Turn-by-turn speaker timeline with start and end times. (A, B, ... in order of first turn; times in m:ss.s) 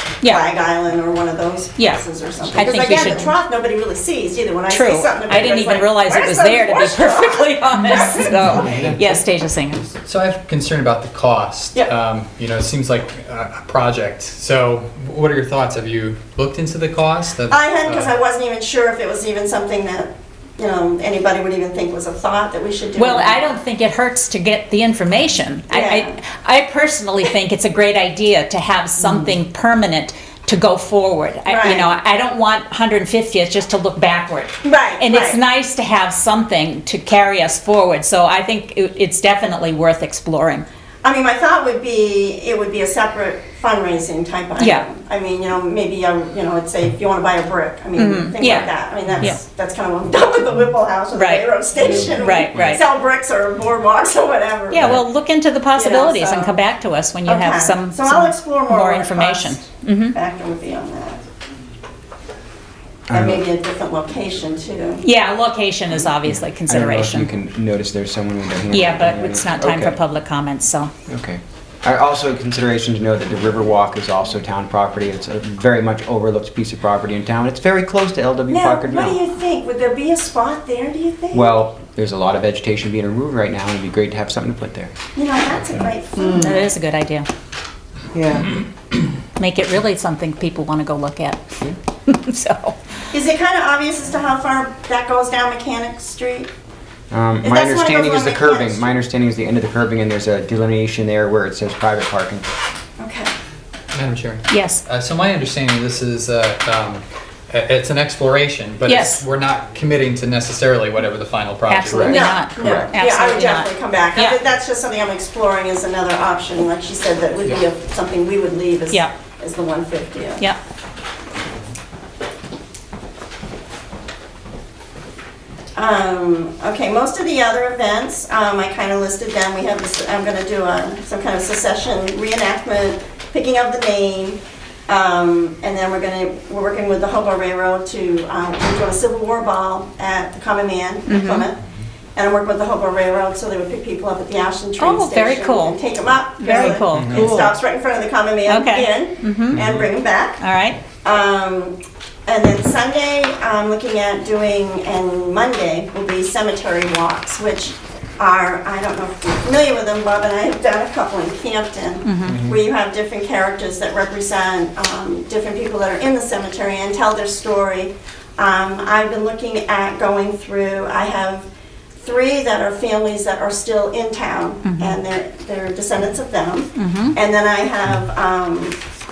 0:00.2-0:09.0 A
0:01.8-0:03.3 B
0:04.7-0:09.9 B
0:08.6-0:09.0 C
0:10.0-0:18.1 C
0:17.5-0:23.4 A
0:23.0-0:40.6 B
0:25.7-0:26.2 A
0:31.5-0:31.9 A
0:34.6-0:35.4 A
0:41.0-0:55.0 A
0:44.6-0:44.8 B
0:48.0-0:49.4 B
0:51.1-0:51.5 B
0:52.0-0:52.8 B
0:54.7-1:00.1 B
0:55.7-0:56.6 A
0:57.2-1:01.2 A
1:03.1-1:03.4 D
1:03.1-1:05.0 A
1:05.0-1:07.3 B
1:06.2-1:10.0 D
1:08.7-1:10.9 B
1:11.1-1:19.2 D
1:18.5-1:21.5 A
1:21.3-1:24.9 D
1:25.1-1:26.6 A
1:26.2-1:27.3 B
1:28.1-1:28.5 D
1:29.4-1:31.5 B
1:32.0-1:32.8 B
1:33.1-1:36.5 A
1:37.1-1:42.4 D
1:37.4-1:39.0 A
1:43.0-1:43.3 A
1:43.9-1:52.2 C
1:44.5-1:44.8 B
1:48.8-1:49.2 B
1:51.6-1:54.4 B
1:52.0-2:00.4 A
2:05.7-2:21.6 A
2:21.1-2:21.5 B
2:22.2-2:30.4 A
2:24.8-2:25.8 B
2:26.4-2:27.5 B
2:28.5-2:29.7 B
2:30.4-2:30.8 B
2:31.0-2:58.8 A
2:42.0-2:42.4 B
2:54.6-2:55.0 B
2:56.8-2:57.2 B